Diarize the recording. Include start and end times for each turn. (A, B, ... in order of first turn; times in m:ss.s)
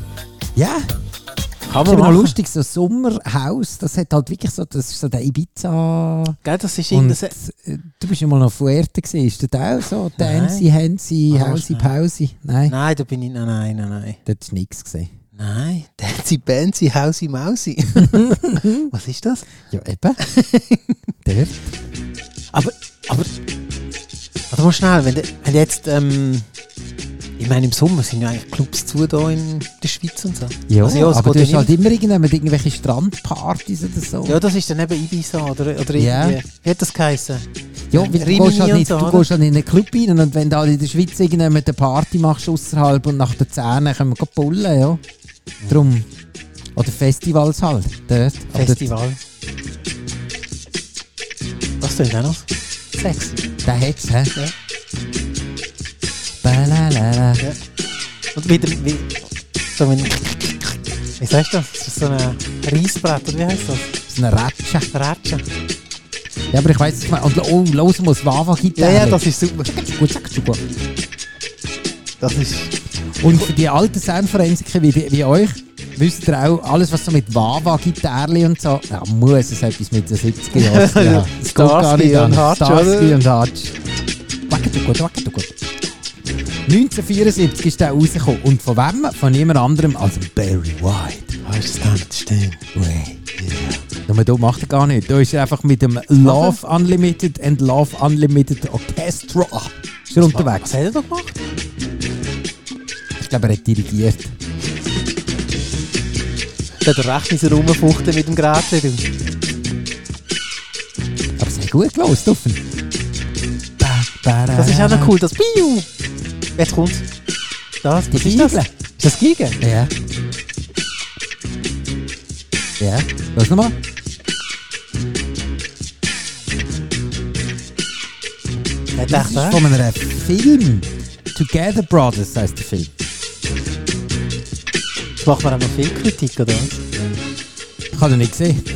0:00.6-0:00.9 A
0:01.7-0:02.4 B
0:01.8-0:06.4 A
0:06.4-0:07.4 B
0:06.9-0:12.8 A
0:10.2-0:10.7 B
0:11.3-0:11.9 B
0:12.7-0:14.2 B
0:14.3-0:15.1 A
0:15.4-0:19.5 B
0:18.0-0:18.9 A
0:19.7-0:20.2 A
0:20.2-0:21.0 B
0:21.2-0:21.6 A
0:22.5-0:23.4 B
0:24.5-0:26.5 B
0:27.4-0:31.7 B
0:30.7-0:34.4 A
0:34.2-0:39.3 B
0:36.0-0:36.4 A
0:37.9-0:45.0 A
0:45.6-0:45.9 B
0:45.7-0:46.1 A
0:46.8-0:48.9 A
0:48.5-0:49.2 B
0:51.8-0:53.5 B
0:53.6-0:54.4 A
0:56.4-0:57.5 A
0:58.4-1:04.0 B
1:04.1-1:04.9 A
1:04.9-1:05.4 B
1:06.5-1:10.6 A
1:08.8-1:09.7 B
1:12.2-1:12.8 B
1:13.2-1:23.8 A
1:20.5-1:23.2 B
1:24.5-1:25.5 A
1:26.7-1:31.4 A
1:31.4-1:32.6 B
1:32.7-1:33.3 A
1:33.4-1:33.8 B
1:34.0-1:40.7 A
1:36.2-1:36.6 B
1:40.2-1:41.4 B
1:43.2-1:44.3 A
1:46.8-1:49.1 B
1:51.4-1:52.6 A
1:53.8-1:55.2 A
1:54.5-1:55.9 B
1:56.6-1:57.1 B
1:57.8-1:59.6 B
1:58.1-1:58.7 A
1:59.6-1:59.9 A
2:02.8-2:03.8 A
2:09.0-2:09.6 B
2:09.1-2:12.9 A
2:15.2-2:16.8 B
2:17.9-2:18.6 A